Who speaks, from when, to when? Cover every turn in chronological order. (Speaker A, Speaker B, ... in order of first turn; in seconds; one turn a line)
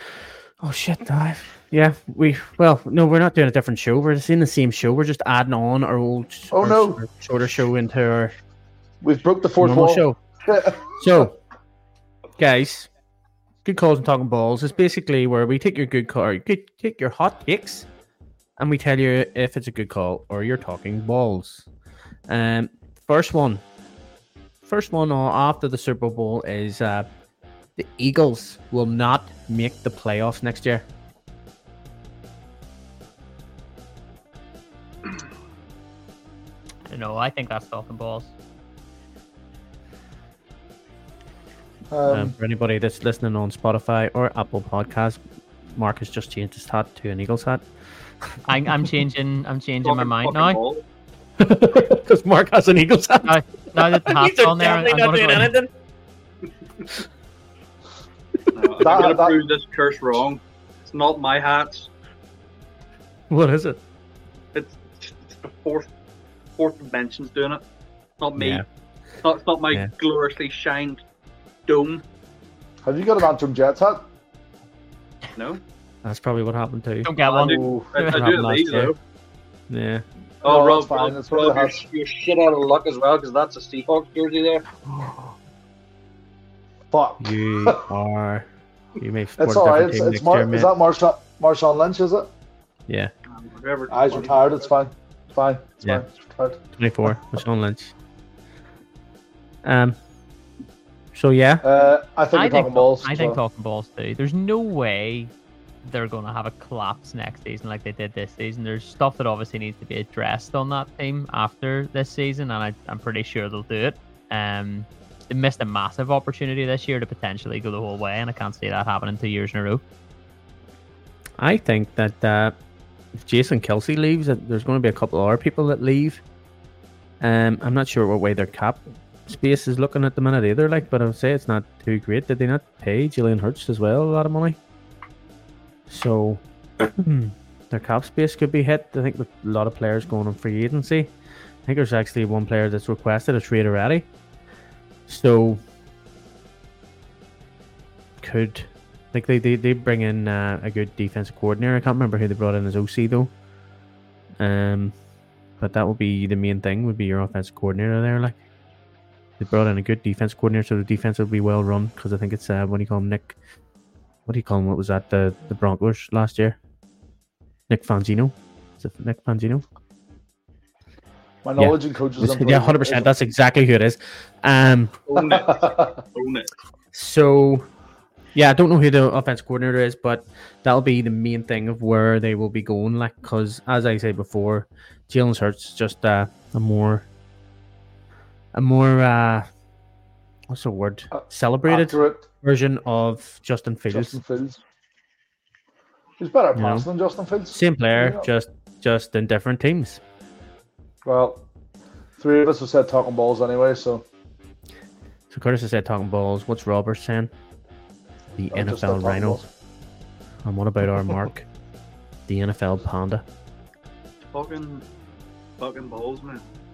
Speaker A: 0.6-8.3
Speaker B: 6.5-7.0
Speaker B: 9.0-11.3
Speaker A: 9.6-10.2
Speaker A: 11.0-11.4
Speaker A: 12.4-12.9
Speaker A: 13.6-17.9
Speaker A: 18.6-21.6
Speaker A: 22.3-23.6
Speaker A: 24.6-27.1
Speaker A: 27.8-30.8
Speaker C: 36.9-38.3
Speaker B: 41.9-42.3
Speaker A: 42.1-47.6
Speaker C: 48.5-50.6
Speaker D: 49.8-50.8
Speaker A: 51.4-55.7
Speaker C: 53.2-55.5
Speaker D: 58.5-61.9
Speaker B: 58.8-59.4
Speaker A: 63.3-63.8
Speaker D: 64.5-65.9
Speaker D: 66.6-67.6
Speaker D: 68.2-68.6
Speaker A: 68.4-68.6
Speaker D: 69.2-71.0
Speaker D: 71.7-72.0
Speaker B: 72.8-74.1
Speaker D: 75.3-75.6
Speaker A: 76.0-78.9
Speaker C: 77.0-78.2
Speaker D: 77.2-79.0
Speaker A: 79.7-80.0
Speaker B: 80.4-81.8
Speaker D: 80.4-84.7
Speaker A: 84.9-85.3
Speaker B: 86.9-87.9
Speaker A: 87.2-88.5
Speaker A: 89.0-90.7
Speaker B: 89.4-92.3
Speaker D: 93.3-94.6
Speaker B: 93.9-96.6
Speaker A: 96.8-97.9
Speaker A: 99.6-100.0
Speaker A: 101.1-101.6
Speaker B: 101.6-103.4
Speaker C: 102.3-105.3
Speaker C: 105.8-119.8
Speaker A: 121.4-122.6
Speaker A: 123.2-126.2
Speaker A: 127.2-134.6
Speaker A: 135.9-141.1
Speaker A: 141.7-144.1
Speaker A: 145.1-145.6
Speaker A: 148.2-153.3
Speaker A: 154.4-154.9
Speaker A: 155.6-158.4
Speaker A: 159.4-163.4
Speaker A: 164.2-166.6
Speaker A: 167.7-169.6
Speaker B: 171.4-173.1
Speaker A: 171.6-175.0
Speaker D: 175.1-176.5
Speaker B: 175.2-176.0
Speaker A: 176.9-177.7
Speaker A: 178.3-187.1
Speaker A: 188.5-189.5
Speaker A: 190.5-194.2
Speaker B: 191.1-192.2
Speaker B: 193.9-194.6
Speaker B: 196.2-198.3
Speaker A: 196.6-196.8
Speaker A: 197.5-200.0
Speaker B: 201.0-201.4
Speaker B: 202.2-204.0
Speaker A: 205.3-207.3
Speaker A: 208.3-209.4
Speaker B: 208.5-209.5
Speaker A: 210.4-211.4
Speaker A: 212.3-213.2
Speaker D: 214.3-214.8
Speaker D: 215.6-216.4